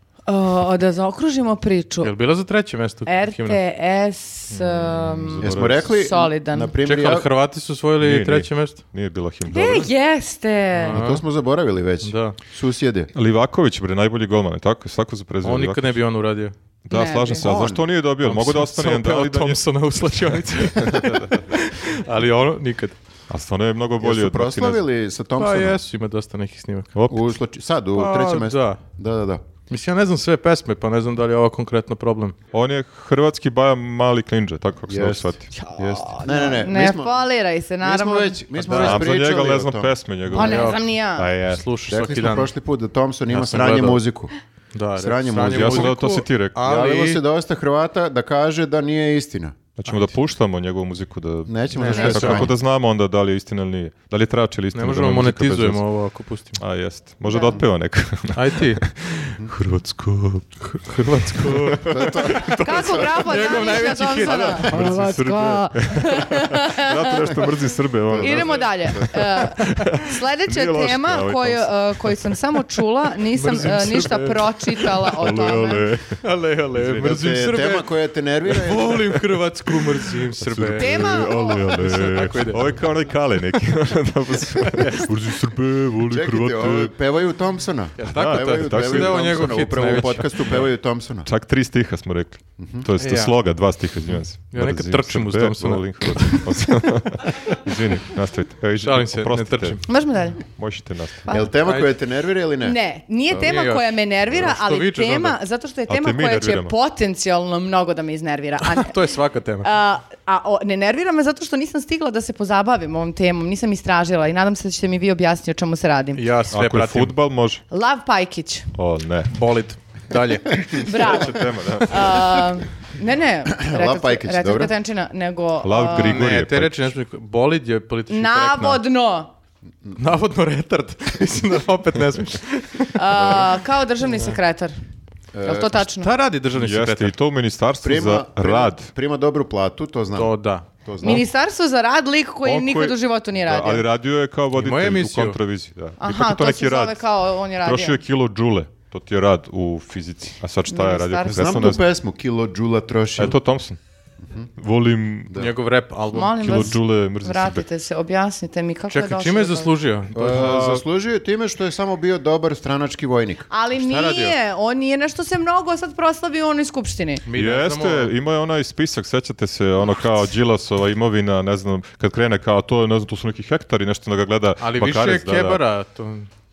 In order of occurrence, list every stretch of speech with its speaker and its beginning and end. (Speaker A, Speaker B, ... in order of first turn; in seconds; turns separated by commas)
Speaker A: 0.3-2.1, Speaker B: 2.0-3.6, Speaker A: 3.0-6.7, Speaker C: 4.5-5.9, Speaker D: 5.4-7.3, Speaker B: 6.8-8.8, Speaker C: 8.0-9.9, Speaker A: 9.5-11.0, Speaker B: 10.8-11.2, Speaker D: 10.9-13.1, Speaker B: 12.0-12.4, Speaker C: 13.1-16.0, Speaker B: 15.4-16.5, Speaker C: 16.9-19.6, Speaker A: 16.9-17.4, Speaker D: 17.4-17.8, Speaker B: 18.2-22.9, Speaker C: 20.2-21.5, Speaker C: 23.3-24.8, Speaker D: 24.0-25.8, Speaker B: 25.4-26.9, Speaker C: 26.9-27.3, Speaker D: 27.1-29.4, Speaker B: 27.9-28.8, Speaker B: 29.7-32.4, Speaker C: 32.5-35.5, Speaker D: 34.9-37.2, Speaker A: 35.5-38.4, Speaker D: 37.8-40.3, Speaker B: 38.6-39.0, Speaker C: 38.7-41.6, Speaker A: 40.3-41.3, Speaker B: 40.3-40.8, Speaker B: 41.5-42.5, Speaker D: 41.9-44.3, Speaker B: 43.3-44.0, Speaker B: 44.7-47.2, Speaker D: 45.0-46.0, Speaker C: 45.5-46.6, Speaker D: 46.6-49.6, Speaker C: 49.8-55.8, Speaker B: 49.9-50.1, Speaker D: 51.5-52.5, Speaker B: 51.7-52.5, Speaker A: 51.9-52.2, Speaker B: 54.7-56.6, Speaker C: 56.6-63.4, Speaker A: 57.2-57.6, Speaker B: 58.3-58.8, Speaker B: 60.8-62.3, Speaker D: 61.9-63.1, Speaker A: 62.6-67.4, Speaker B: 63.1-65.0, Speaker C: 64.2-72.4, Speaker D: 68.0-69.2, Speaker A: 68.2-75.8, Speaker B: 73.3-75.0, Speaker C: 75.1-76.2, Speaker B: 76.2-77.9, Speaker D: 76.8-79.2, Speaker B: 78.5-82.8, Speaker C: 79.7-86.9, Speaker A: 80.8-81.8, Speaker B: 84.7-85.0, Speaker D: 86.1-91.3, Speaker B: 88.0-90.7, Speaker C: 88.0-90.7, Speaker C: 91.2-101.3, Speaker D: 92.6-92.9, Speaker B: 93.0-93.4, Speaker B: 94.5-96.6, Speaker B: 98.8-99.8, Speaker A: 99.9-100.4, Speaker A: 101.2-101.5, Speaker D: 101.3-102.8, Speaker B: 101.6-101.9, Speaker A: 102.6-109.0, Speaker B: 103.3-105.4, Speaker C: 105.9-106.7, Speaker B: 108.6-109.7, Speaker A: 109.6-116.2, Speaker B: 116.1-117.2, Speaker C: 116.5-117.6, Speaker A: 117.7-118.7, Speaker C: 118.7-119.3, Speaker B: 119.3-120.8, Speaker C: 120.7-122.5, Speaker A: 120.8-126.2, Speaker D: 123.5-124.7, Speaker C: 125.6-126.9, Speaker B: 125.9-128.8, Speaker A: 128.1-129.3, Speaker B: 129.9-133.4, Speaker A: 132.9-134.8, Speaker D: 135.3-135.8, Speaker A: 135.4-136.1, Speaker B: 136.0-137.1, Speaker C: 136.5-138.9, Speaker D: 137.8-141.2, Speaker B: 140.1-141.2, Speaker A: 141.0-143.8, Speaker C: 142.4-147.0, Speaker B: 144.5-145.4, Speaker A: 146.0-148.0, Speaker C: 147.6-151.8, Speaker A: 150.7-151.7, Speaker D: 151.2-153.4, Speaker C: 153.2-153.8, Speaker D: 154.2-154.5, Speaker C: 154.6-155.5, Speaker B: 155.3-156.8, Speaker A: 156.1-159.7, Speaker C: 156.4-157.7, Speaker B: 158.9-160.6, Speaker D: 160.1-163.5, Speaker C: 160.2-160.8, Speaker A: 163.5-167.2, Speaker B: 163.7-164.3, Speaker B: 167.2-168.1, Speaker C: 167.3-175.6, Speaker B: 174.6-176.3